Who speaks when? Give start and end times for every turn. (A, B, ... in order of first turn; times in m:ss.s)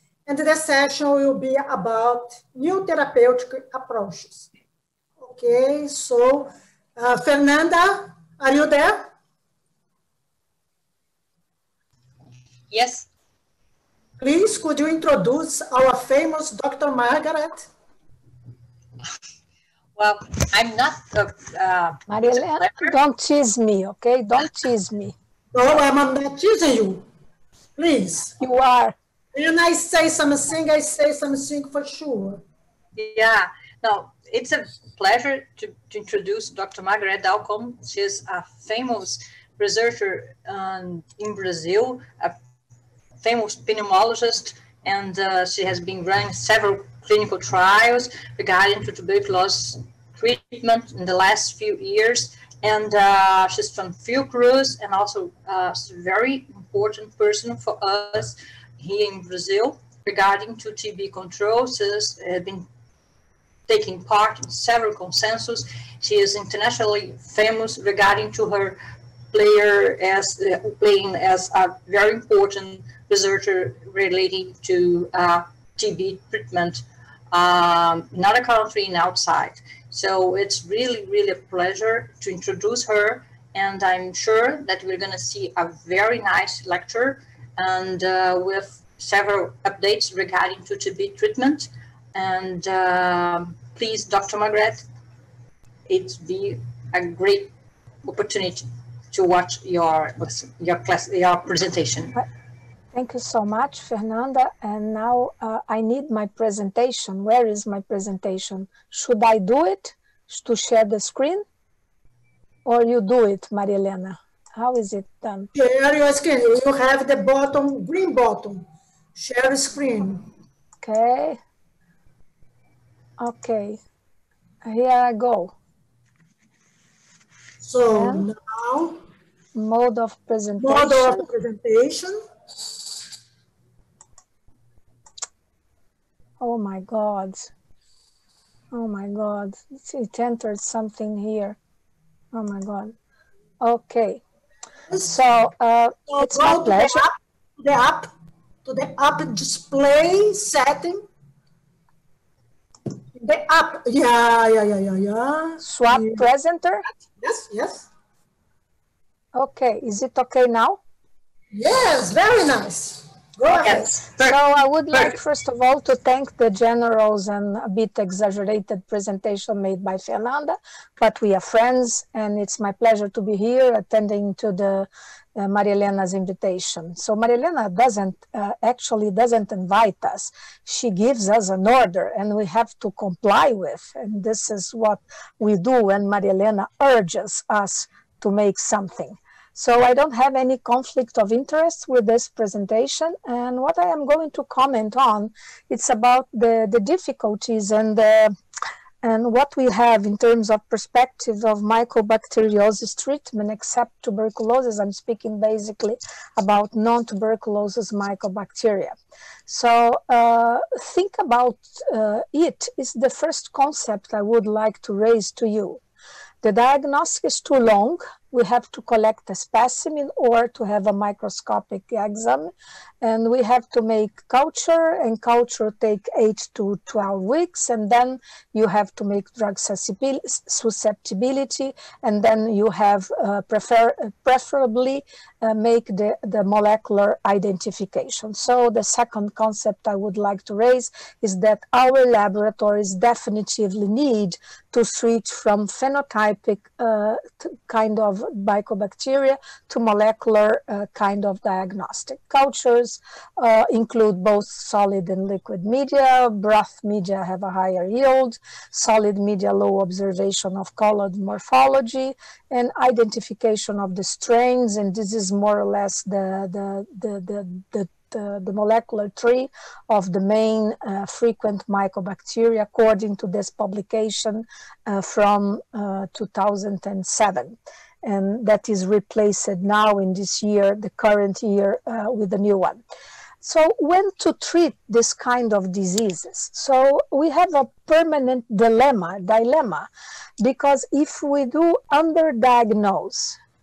0:00.2-0:04.5 A
0:05.2-0:09.1 A
0:12.7-0:13.1 B
0:14.2-0:17.7 A
0:20.0-0:22.9 B
0:22.1-0:25.1 C
0:25.5-0:27.0 A
0:27.8-0:28.4 A
0:28.4-0:28.9 C
0:29.3-0:32.4 A
0:33.0-0:42.4 B
0:43.2-1:02.7 B
1:03.7-1:08.8 B
1:09.3-1:34.8 B
1:35.9-1:37.5 B
1:38.0-1:42.2 B
1:42.9-1:51.4 C
1:52.6-1:55.5 C
1:55.5-2:00.3 A
2:00.8-2:01.4 C
2:03.2-2:03.8 C
2:04.6-2:05.5 C
2:07.6-2:09.0 A
2:07.9-2:08.3 C
2:09.5-2:11.3 C
2:10.6-2:12.2 A
2:16.4-2:17.5 C
2:18.7-2:21.6 C
2:22.3-2:23.0 C
2:23.6-2:24.2 C
2:25.0-2:27.1 C
2:26.1-2:28.1 A
2:28.6-2:31.0 A
2:33.2-2:36.2 A
2:35.6-2:36.8 C
2:37.2-2:37.9 A
2:39.3-2:40.8 C
2:41.5-2:43.9 A
2:43.6-3:18.3 C
2:43.6-2:44.4 B
3:19.0-3:28.9 C
3:29.5-3:35.8 C
3:36.4-4:42.8 C
4:43.4-4:49.9 C
4:50.4-4:53.4 C